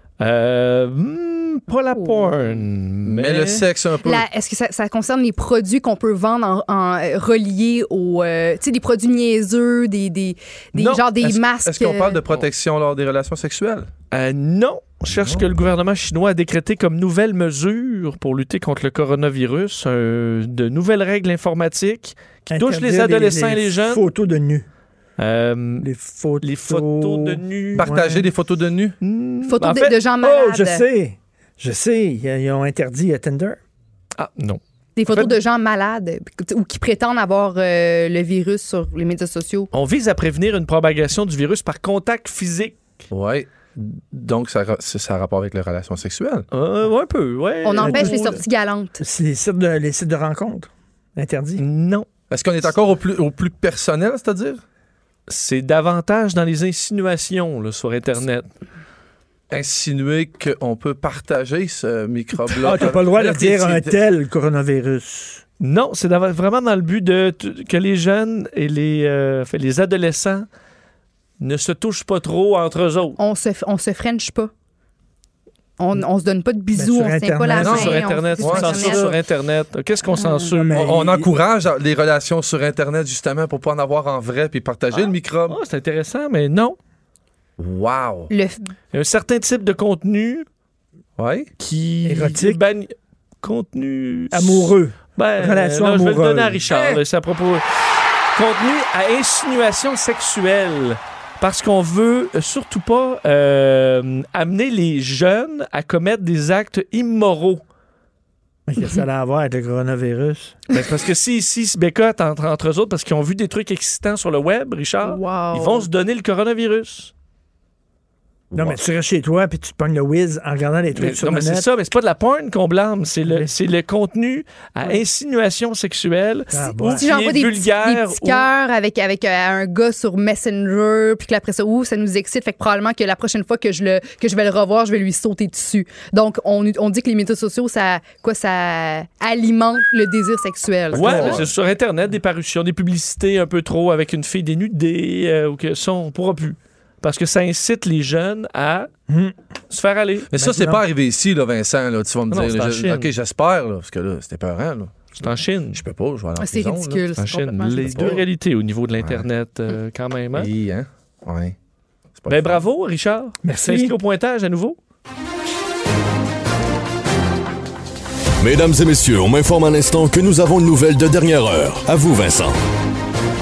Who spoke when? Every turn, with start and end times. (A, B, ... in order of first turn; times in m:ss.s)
0:00.2-0:03.6 A
0:02.0-0:02.3 B
0:03.0-0:04.2 C
0:04.0-0:12.2 B
0:10.8-0:11.0 A
0:11.2-0:13.9 C
0:14.1-0:24.0 A
0:15.1-0:15.4 C
0:22.5-0:24.7 D
0:25.2-0:25.9 A
0:25.8-0:28.3 D
0:26.4-0:27.9 A
0:27.8-0:29.0 C
0:29.0-0:30.0 A
0:29.4-0:30.8 B
0:30.2-0:33.6 D
0:34.2-0:35.4 A
0:35.0-0:39.7 B
0:39.7-0:42.8 A
0:43.1-0:46.5 C
0:46.5-0:48.4 A
0:47.6-0:49.0 B
0:47.8-0:48.4 D
0:49.0-0:51.6 D
0:51.6-0:52.1 A
0:52.3-0:54.6 C
0:55.3-0:58.5 A
0:59.5-1:04.0 C
1:02.5-1:05.4 D
1:05.6-1:10.5 A
1:11.4-1:13.2 A
1:13.2-1:14.5 B
1:15.8-1:19.2 B
1:16.8-1:18.0 D
1:17.6-1:20.9 A
1:17.6-1:19.0 C
1:20.1-1:20.6 B
1:20.5-1:21.3 D
1:20.8-1:25.6 C
1:25.5-1:26.8 A
1:27.6-1:28.3 C
1:28.3-1:28.7 B
1:28.9-1:30.4 A
1:31.2-1:31.5 C
1:31.6-1:37.6 A
1:32.0-1:32.6 D
1:34.3-1:36.6 D
1:36.7-1:37.0 C
1:38.3-1:47.6 A
1:48.7-1:50.6 D
1:50.7-1:57.1 A
1:55.0-1:55.9 B
1:58.5-1:58.8 C
1:58.5-2:01.7 D
2:01.0-2:08.5 A
2:03.2-2:03.5 D
2:06.5-2:07.1 D
2:07.0-2:21.4 B
2:20.9-2:21.5 C
2:20.9-2:28.9 A
2:29.1-2:29.4 D
2:29.7-2:30.3 A
2:30.3-2:37.2 C
2:30.3-2:30.8 D
2:32.3-2:33.1 A
2:35.2-2:35.8 A
2:36.4-2:38.2 B
2:37.2-2:40.5 A
2:37.7-2:38.2 C
2:40.4-2:41.5 C
2:42.2-2:42.6 C
2:42.3-2:44.8 A
2:43.4-2:44.0 D
2:48.4-2:52.6 E